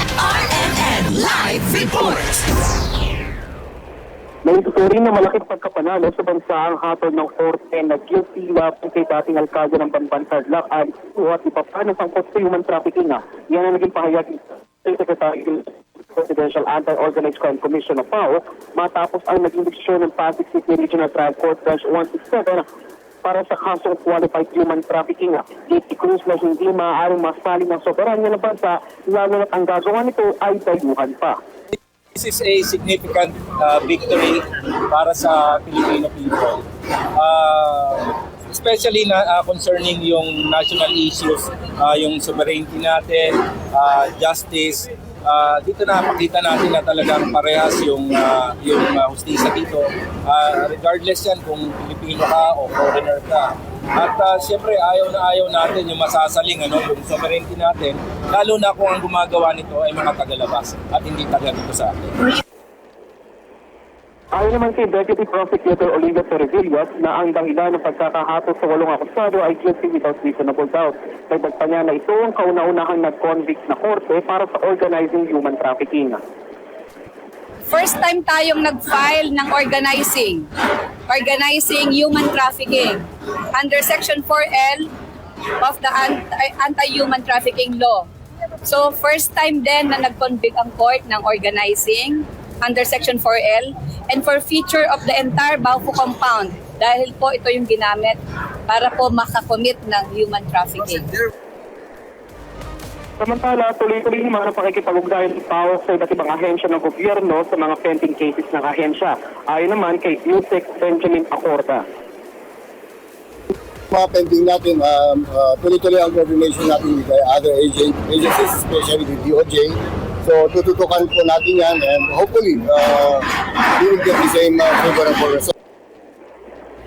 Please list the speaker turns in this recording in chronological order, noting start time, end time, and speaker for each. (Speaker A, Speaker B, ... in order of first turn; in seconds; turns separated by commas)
Speaker A: 0.3-2.4, Speaker B: 4.4-22.6, Speaker B: 23.2-31.4, Speaker C: 32.1-62.1, Speaker B: 64.3-76.2, Speaker D: 77.7-80.5, Speaker D: 81.1-84.9, Speaker D: 85.6-88.1, Speaker D: 88.6-98.2, Speaker D: 98.7-101.2, Speaker B: 103.2-111.8, Speaker E: 113.9-125.5